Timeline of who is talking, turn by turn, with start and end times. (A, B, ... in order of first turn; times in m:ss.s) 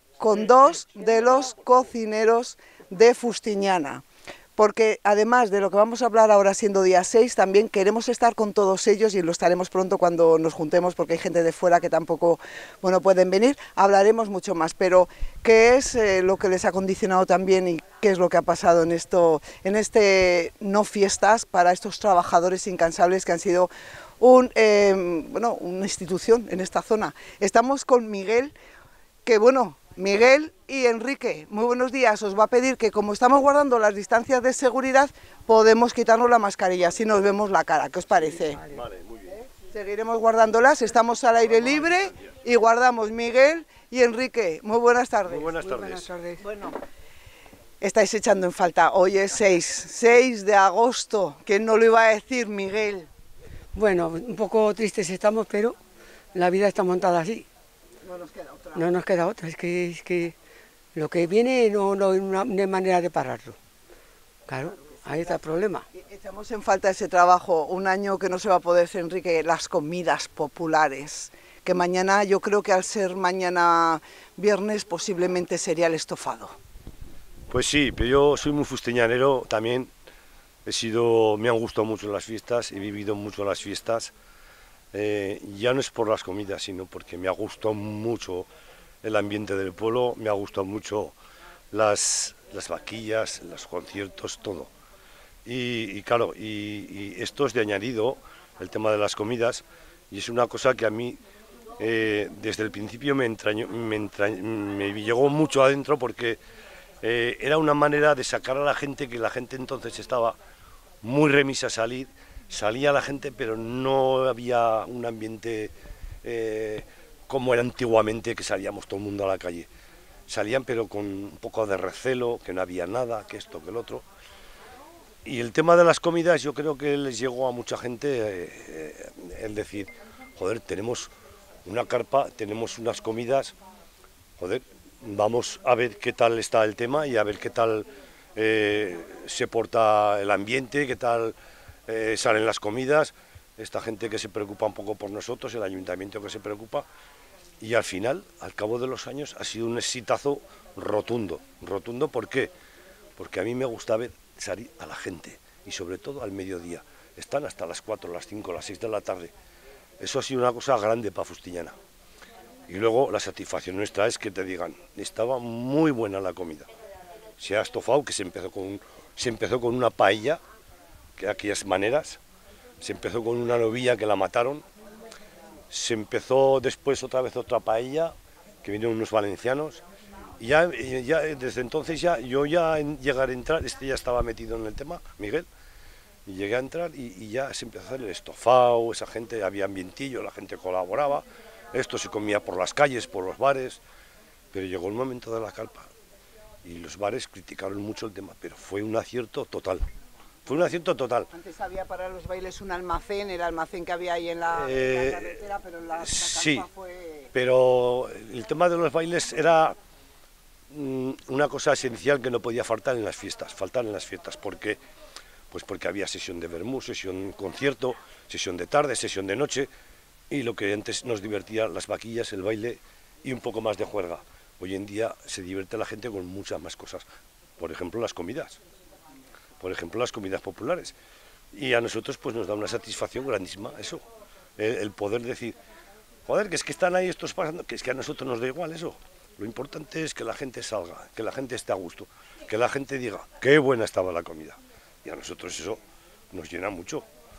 0:00.2-0:04.0 A
0:04.6-0:28.5 A
0:29.2-0:38.6 A
0:38.7-0:39.4 B
0:39.6-0:45.6 A
0:45.3-0:46.1 B
0:45.6-0:46.4 C
0:46.4-0:46.8 A
0:47.8-0:53.1 A
0:53.7-0:55.8 C
0:56.3-0:57.5 C
0:58.0-0:58.9 A
0:58.7-1:00.3 C
1:00.9-1:03.6 C
1:04.5-1:05.8 C
1:05.9-1:16.6 A
1:17.5-1:19.9 B
1:20.6-1:24.1 B
1:24.9-1:28.5 B
1:29.0-1:31.1 B
1:31.7-1:34.7 B
1:35.4-1:41.2 B
1:41.8-1:46.4 B
1:47.0-1:50.4 B
1:51.0-1:59.7 B
2:00.3-2:04.0 B
2:05.2-2:11.1 B
2:11.6-2:13.6 B
2:14.4-2:21.3 B
2:21.9-2:26.8 B
2:27.6-2:32.5 B
2:33.2-2:39.3 B
2:40.0-2:41.7 B
2:42.7-2:46.7 B
2:47.4-2:50.4 B
2:51.2-2:52.2 B
2:52.8-2:54.6 B
2:55.7-2:59.8 B
3:00.4-3:05.5 B
3:06.2-3:13.8 B
3:14.5-3:15.9 B
3:16.6-3:19.8 B
3:20.4-3:21.3 B
3:21.3-3:27.3 A
3:24.5-3:25.4 B
3:26.0-3:26.7 B
3:27.3-3:29.8 B
3:30.7-3:34.8 B
3:35.5-3:39.7 B
3:40.3-3:47.0 B
3:47.6-3:48.6 B
3:49.6-3:50.9 B
3:51.5-3:54.0 B
3:54.6-3:55.6 B
3:56.2-4:07.0 B